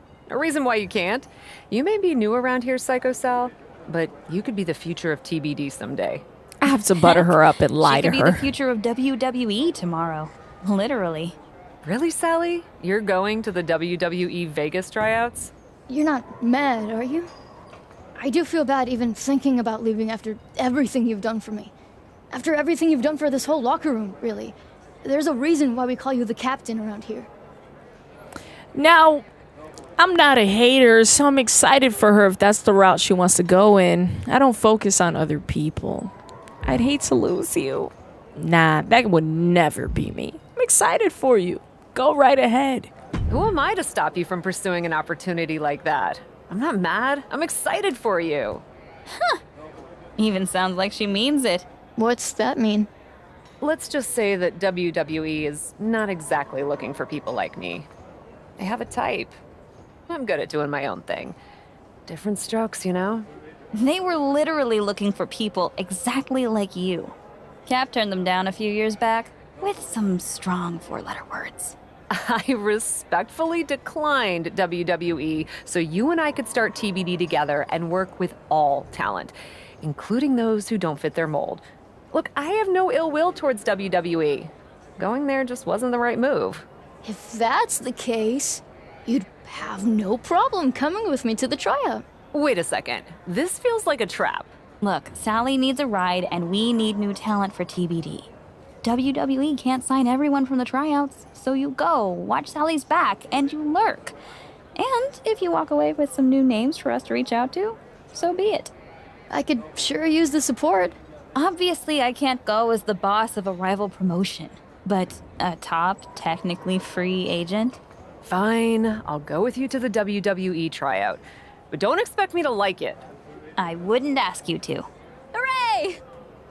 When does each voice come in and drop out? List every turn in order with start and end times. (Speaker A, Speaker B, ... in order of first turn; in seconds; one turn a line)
Speaker A: 0.3-6.2
Speaker B: 6.6-8.5
Speaker C: 7.0-11.4
Speaker A: 11.8-15.5
Speaker D: 15.9-17.3
Speaker D: 18.2-21.7
Speaker D: 22.3-27.3
Speaker B: 28.7-29.3
Speaker B: 30.0-36.1
Speaker B: 36.6-42.9
Speaker A: 43.3-48.6
Speaker C: 49.1-49.4
Speaker C: 50.2-51.7
Speaker D: 52.0-52.9
Speaker A: 53.6-57.9
Speaker A: 58.6-59.4
Speaker A: 60.1-61.4
Speaker A: 62.1-63.3
Speaker C: 63.7-67.2
Speaker C: 67.7-71.8
Speaker A: 72.1-86.7
Speaker D: 87.0-92.0
Speaker A: 92.3-94.5
Speaker C: 94.8-98.3
Speaker C: 98.8-104.2
Speaker C: 104.8-108.7
Speaker D: 109.3-111.0
Speaker C: 111.3-117.8
Speaker A: 118.2-123.0
Speaker C: 123.6-124.9
Speaker D: 125.5-126.0